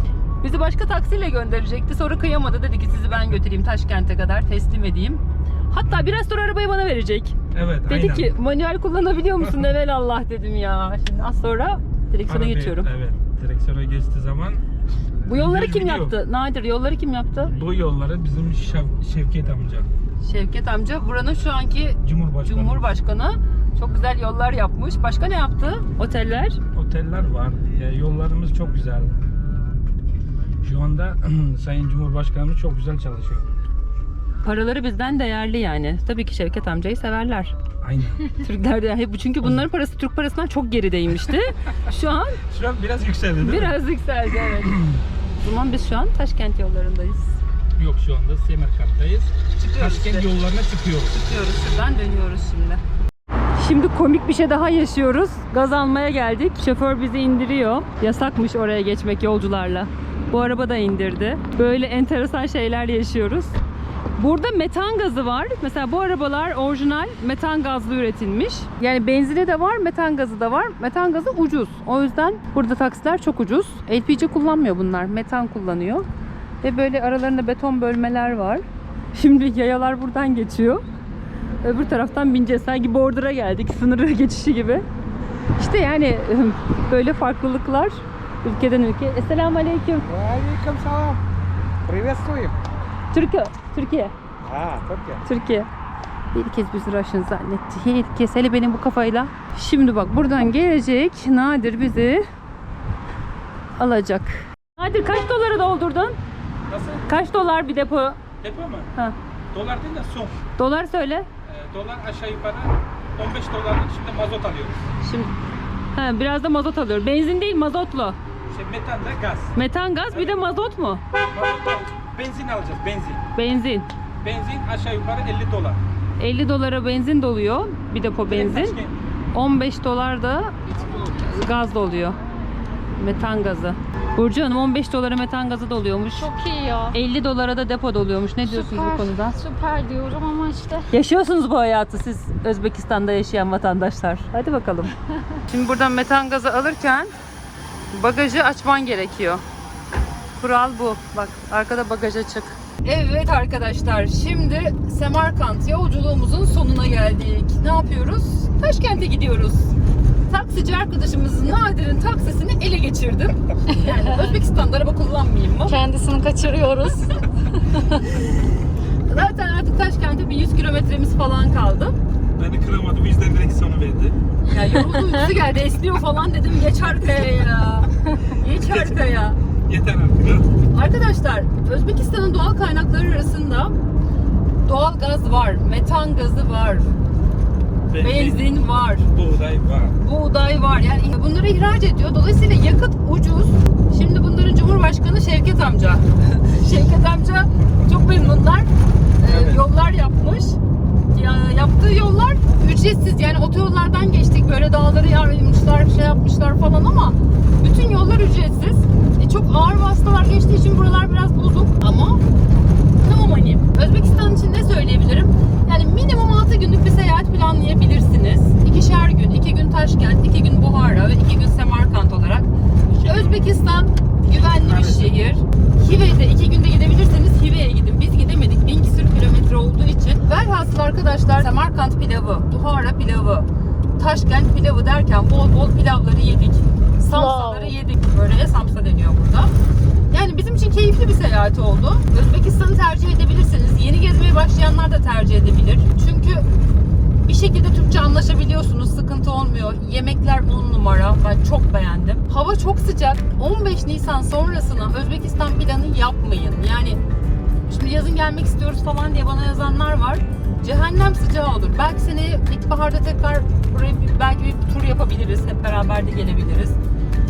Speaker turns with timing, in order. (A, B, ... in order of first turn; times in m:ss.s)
0:00.4-0:07.3 A
0:07.5-0:08.3 B
0:07.9-0:12.9 A
0:12.3-0:14.6 B
0:15.2-0:17.5 A
0:15.2-0:16.2 B
0:17.5-0:19.9 B
0:20.2-0:26.6 A
0:22.0-0:22.9 B
0:26.7-0:29.1 B
0:30.6-0:33.5 B
0:34.4-0:37.6 A
0:37.8-0:38.3 B
0:38.3-0:42.4 A
0:42.5-0:43.8 B
0:43.4-0:44.8 A
0:45.4-0:47.4 A
0:47.7-0:51.1 B
0:49.5-0:50.3 A
0:51.0-0:52.8 A
0:53.6-1:03.6 A
1:04.2-1:16.0 A
1:16.6-1:20.8 A
1:21.6-1:24.8 A
1:25.6-1:30.1 A
1:30.1-1:31.2 C
1:31.9-1:32.6 C
1:33.1-1:34.1 A
1:34.5-1:35.2 C
1:35.2-1:35.7 A
1:36.3-1:42.2 A
1:43.8-1:46.2 A
1:46.7-1:47.1 B
1:47.1-1:48.2 A
1:48.4-1:48.9 B
1:49.5-1:50.4 B
1:50.6-1:51.3 A
1:51.4-1:54.9 B
1:55.0-1:55.3 A
1:55.9-1:58.2 A
1:58.5-1:59.6 B
1:59.5-2:01.0 A
2:00.1-2:00.4 B
2:01.3-2:03.2 B
2:03.3-2:03.9 A
2:04.2-2:05.8 B
2:06.2-2:08.8 A
2:08.3-2:08.9 B
2:09.3-2:12.2 A
2:13.0-2:16.4 A
2:16.2-2:16.9 D
2:16.9-2:19.4 A
2:18.5-2:20.9 D
2:20.9-2:27.1 A
2:27.9-2:29.4 A
2:30.4-2:45.8 A
2:45.7-2:48.0 D
2:47.9-2:48.4 A
2:49.1-2:51.9 A
2:52.4-2:54.2 B
2:54.4-2:59.4 A
2:58.7-2:59.0 B
2:59.6-3:00.5 B
3:00.7-3:03.7 A
3:04.6-3:06.9 A
3:07.9-3:08.5 B
3:08.0-3:09.1 A
3:09.1-3:10.0 B
3:10.0-3:20.6 A
3:19.2-3:19.6 B
3:21.1-3:32.2 A
3:33.0-3:59.5 A
3:42.9-3:43.4 B
3:57.1-3:57.7 D
4:00.1-4:06.4 A
4:07.2-4:17.0 A
4:17.7-4:26.8 A